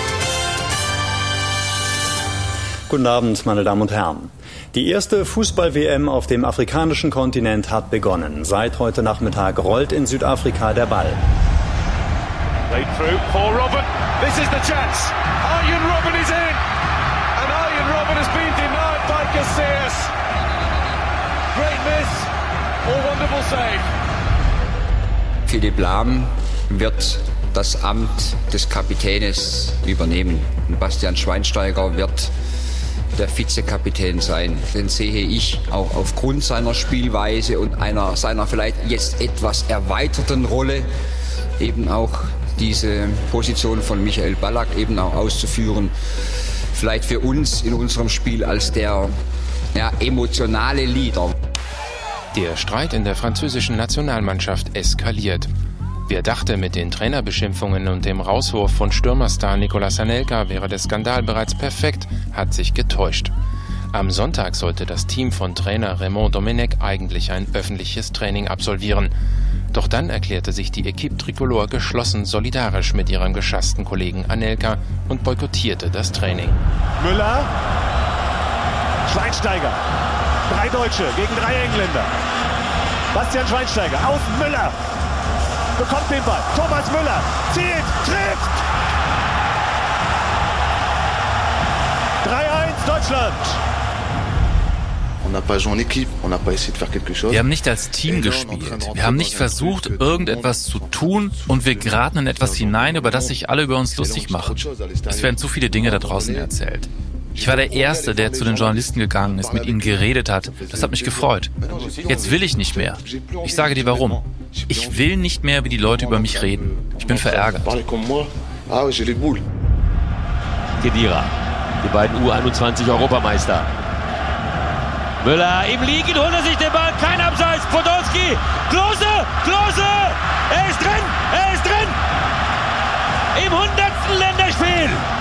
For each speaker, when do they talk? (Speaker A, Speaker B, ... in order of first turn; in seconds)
Speaker A: 3.0-4.2, 4.8-11.1
Speaker B: 12.7-16.6, 17.4-20.1, 21.5-22.3, 22.9-23.9, 77.0-77.5, 79.2-79.7, 80.6-82.0, 83.2-84.7, 85.8-88.4, 92.3-93.4
Speaker C: 25.4-32.3, 33.1-40.9, 41.6-45.9, 46.7-49.1, 49.7-51.4
Speaker D: 52.3-55.5, 56.1-63.3, 63.9-69.1, 69.7-76.6, 106.0-106.5, 117.4-117.7
Speaker E: 97.3-104.6, 105.2-106.9, 107.4-111.5, 112.1-114.2, 114.7-116.6, 117.2-117.6
Speaker F: 120.8-121.3, 121.8-123.7, 125.2-132.0, 133.3-135.0